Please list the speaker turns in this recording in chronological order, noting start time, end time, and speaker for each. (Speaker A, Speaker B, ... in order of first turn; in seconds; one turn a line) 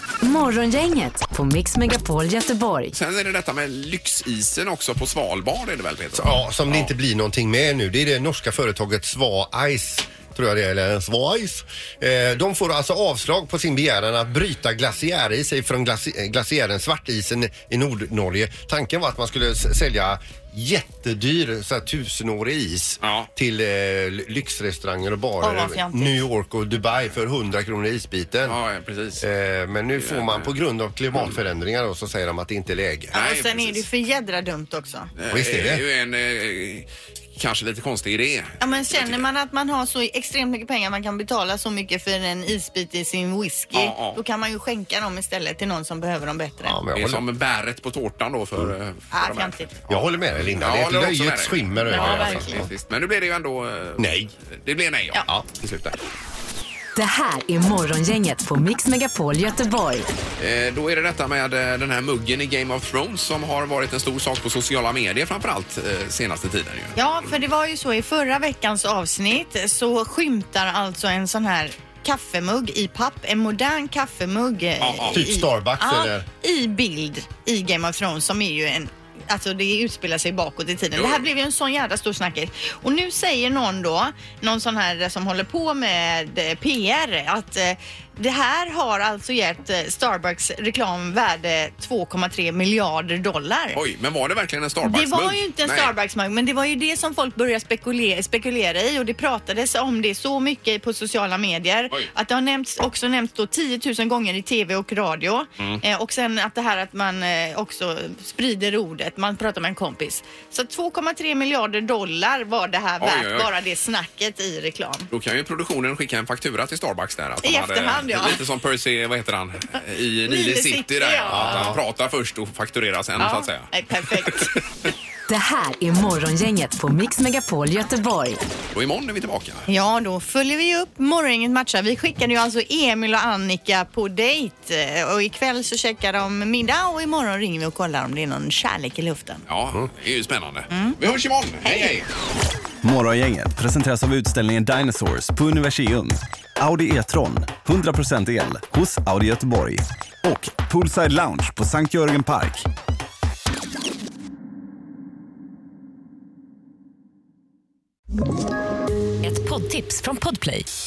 Speaker A: 0.2-2.9
Speaker B: 2.9-6.9
Speaker C: 6.1-28.6
Speaker B: 23.0-23.3
Speaker D: 25.4-26.2
Speaker B: 28.5-29.2
Speaker C: 29.2-33.1
Speaker B: 30.0-30.5
Speaker B: 33.1-33.8
Speaker D: 33.1-35.1
Speaker B: 35.2-39.2
Speaker C: 35.3-35.8
Speaker D: 38.6-46.8
Speaker B: 43.7-44.2
Speaker C: 46.6-47.2
Speaker B: 46.9-56.0
Speaker D: 49.1-49.7
Speaker C: 49.9-52.7
Speaker D: 51.9-52.6
Speaker C: 54.0-54.3
Speaker A: 57.0-60.1
Speaker B: 60.4-67.0
Speaker D: 67.0-93.8
Speaker B: 74.8-75.3
Speaker C: 75.1-76.3
Speaker B: 81.0-81.2
Speaker B: 93.7-95.9
Speaker D: 94.8-115.1
Speaker B: 105.6-105.8
Speaker B: 113.0-113.5
Speaker B: 115.1-124.6
Speaker D: 117.4-118.4
Speaker D: 120.3-121.7
Speaker C: 121.3-121.8
Speaker D: 123.2-124.6
Speaker A: 125.3-128.4
Speaker B: 128.7-129.7
Speaker D: 129.7-139.4
Speaker B: 139.5-142.1
Speaker D: 140.7-141.0
Speaker E: 142.9-144.3
Speaker E: 145.0-145.9
Speaker E: 146.6-149.8
Speaker E: 150.3-152.6
Speaker A: 159.2-160.7